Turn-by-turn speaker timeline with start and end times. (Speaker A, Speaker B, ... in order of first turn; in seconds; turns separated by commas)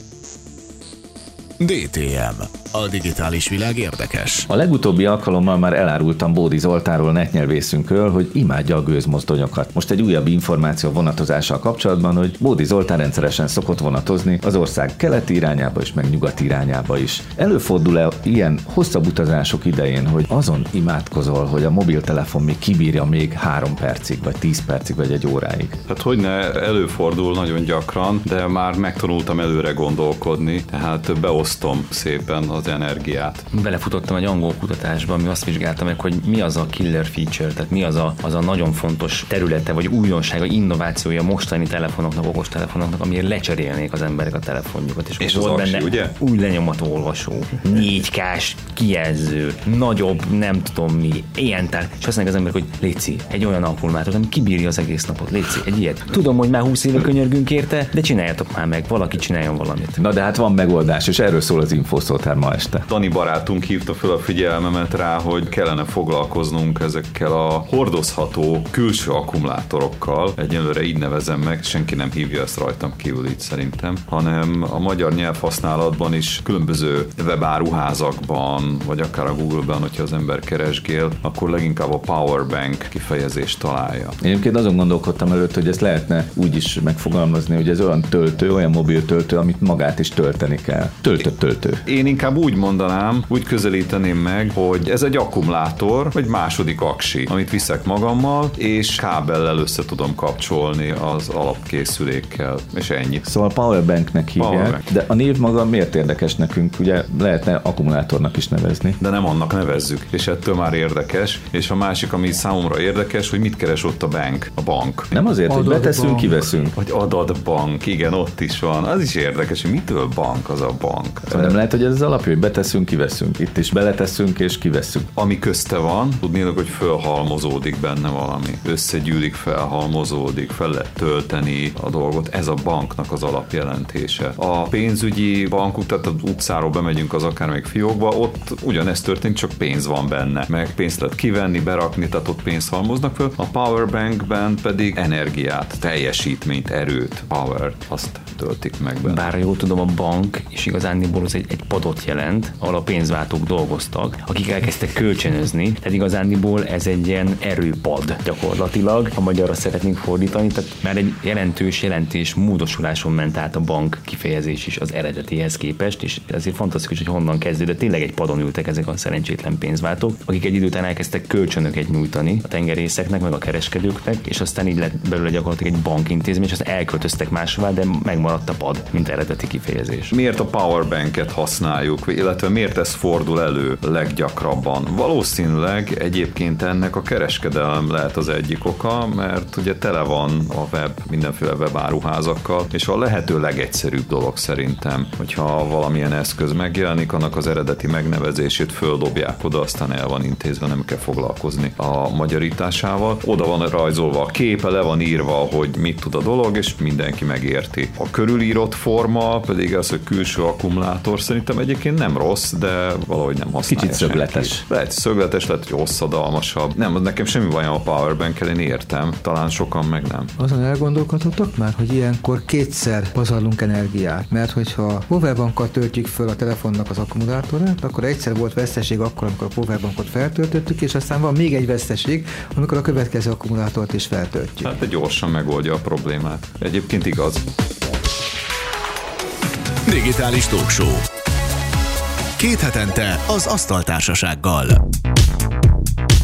Speaker A: 1.6-4.5, Speaker B: 4.5-25.8, Speaker C: 25.9-33.5, Speaker D: 33.5-60.0, Speaker C: 45.2-46.1, Speaker B: 60.0-62.9, Speaker C: 62.9-84.2, Speaker B: 84.2-91.8, Speaker C: 91.8-103.3, Speaker B: 103.2-109.0, Speaker C: 104.4-104.8, Speaker C: 109.0-115.1, Speaker B: 115.1-116.7, Speaker E: 115.5-116.3, Speaker C: 116.7-121.6, Speaker B: 121.3-125.1, Speaker C: 125.2-149.3, Speaker D: 149.0-180.1, Speaker C: 180.1-220.3, Speaker B: 213.7-214.6, Speaker E: 220.4-234.7, Speaker C: 234.6-237.5, Speaker A: 239.8-241.0, Speaker A: 242.4-244.8